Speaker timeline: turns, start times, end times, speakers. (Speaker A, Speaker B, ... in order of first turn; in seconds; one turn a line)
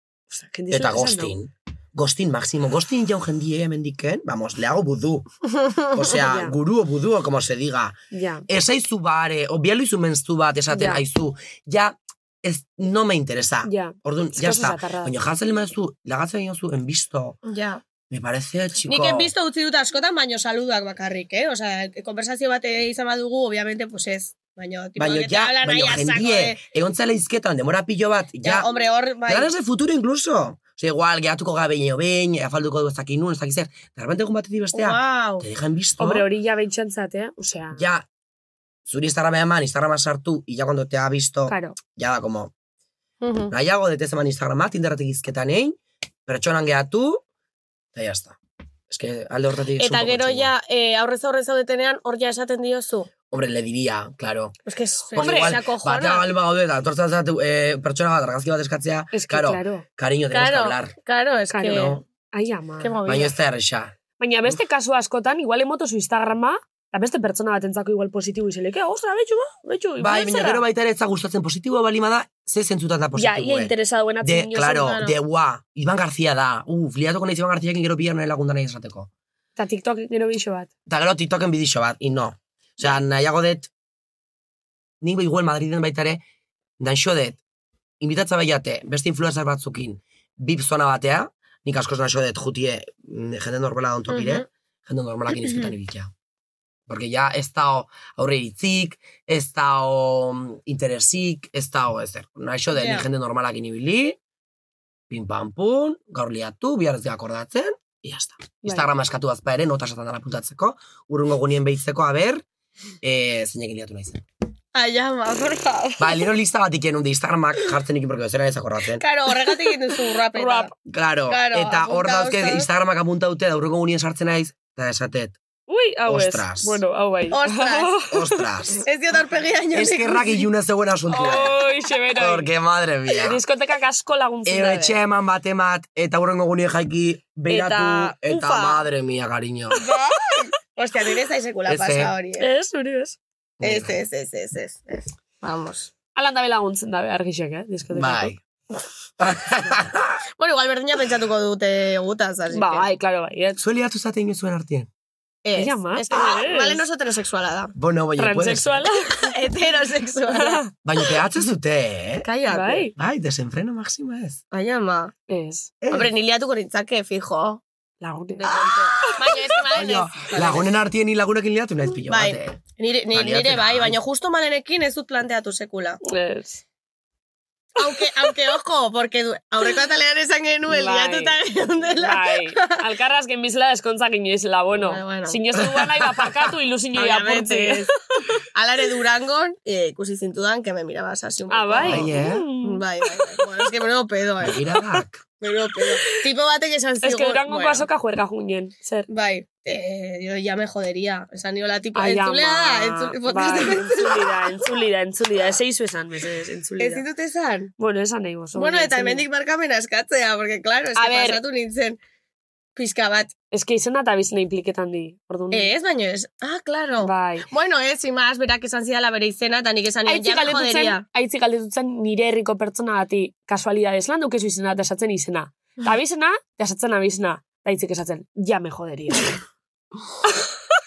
Speaker A: 0.3-1.3
Speaker B: 0.7-5.3
Speaker B: 5.9-8.0
Speaker A: 6.2-6.5
Speaker A: 8.1-8.4
Speaker B: 8.5-17.4
Speaker A: 10.7-11.0
Speaker A: 13.6-15.1
Speaker C: 17.4-17.8
Speaker B: 18.1-19.3
Speaker C: 18.9-26.6
Speaker B: 25.0-28.7
Speaker C: 28.4-29.5
Speaker B: 29.3-36.3
Speaker C: 34.7-35.5
Speaker A: 36.0-37.8
Speaker B: 37.7-38.1
Speaker B: 38.9-42.5
Speaker A: 41.5-41.8
Speaker C: 43.2-43.5
Speaker B: 43.5-47.2
Speaker B: 47.9-48.4
Speaker B: 48.9-50.5
Speaker C: 49.8-53.1
Speaker B: 53.3-54.5
Speaker C: 54.7-56.2
Speaker B: 55.1-60.9
Speaker A: 55.1-55.6
Speaker A: 59.1-59.8
Speaker C: 60.3-62.0
Speaker A: 61.5-63.0
Speaker B: 61.6-62.0
Speaker C: 62.8-63.3
Speaker B: 63.0-64.0
Speaker A: 64.2-70.6
Speaker B: 70.0-79.1
Speaker A: 73.2-75.0
Speaker C: 74.6-75.1
Speaker A: 79.5-80.7
Speaker B: 80.9-83.7
Speaker B: 85.0-86.2
Speaker B: 86.8-87.4
Speaker B: 88.0-96.1
Speaker C: 94.1-94.5
Speaker C: 95.4-95.7
Speaker B: 96.9-104.2
Speaker C: 102.7-103.0
Speaker B: 105.1-112.4
Speaker A: 108.6-108.9
Speaker B: 113.0-114.2
Speaker C: 114.7-116.3
Speaker B: 116.0-119.0
Speaker C: 119.0-120.7
Speaker A: 120.3-120.7
Speaker B: 120.8-125.4
Speaker C: 121.3-122.7
Speaker A: 125.7-128.4
Speaker B: 126.0-126.8
Speaker C: 127.3-128.0
Speaker B: 128.1-128.8
Speaker C: 128.8-130.4
Speaker B: 129.7-131.5
Speaker A: 131.1-132.5
Speaker C: 131.2-131.5
Speaker B: 132.1-133.4
Speaker A: 133.1-135.0
Speaker B: 134.4-139.8
Speaker A: 137.5-138.8
Speaker C: 139.8-142.5
Speaker B: 141.7-142.1
Speaker A: 142.4-143.2
Speaker B: 143.6-144.0
Speaker C: 143.6-145.9
Speaker A: 146.1-148.3
Speaker B: 147.9-148.4
Speaker B: 149.2-150.2
Speaker C: 150.4-152.8
Speaker A: 152.5-153.6
Speaker B: 153.6-154.9
Speaker C: 155.4-157.7
Speaker A: 155.6-156.8
Speaker B: 157.8-158.9
Speaker A: 158.2-159.3
Speaker C: 159.2-160.6
Speaker A: 160.3-160.7
Speaker B: 160.8-162.3
Speaker C: 162.2-162.9
Speaker A: 162.5-162.9
Speaker B: 162.9-164.4
Speaker C: 164.5-165.1
Speaker A: 165.3-165.7
Speaker B: 165.8-166.1
Speaker C: 165.9-167.6
Speaker A: 168.0-169.4
Speaker C: 168.4-170.7
Speaker B: 169.7-172.6
Speaker C: 172.1-176.0
Speaker B: 173.1-174.0
Speaker A: 176.0-176.6
Speaker C: 177.8-182.7
Speaker A: 180.7-181.4
Speaker A: 182.0-187.9
Speaker C: 184.7-185.4
Speaker C: 186.9-187.9
Speaker C: 188.5-194.6
Speaker A: 191.5-193.4
Speaker B: 191.8-192.4
Speaker B: 194.4-195.2
Speaker C: 195.4-197.9
Speaker A: 197.0-199.1
Speaker C: 199.1-204.5
Speaker A: 201.9-207.0
Speaker C: 206.8-207.7
Speaker A: 207.8-209.2
Speaker C: 208.5-212.0
Speaker A: 210.9-211.4
Speaker C: 212.8-213.3
Speaker A: 213.5-215.7
Speaker C: 215.5-221.0
Speaker A: 217.0-217.5
Speaker A: 220.1-229.4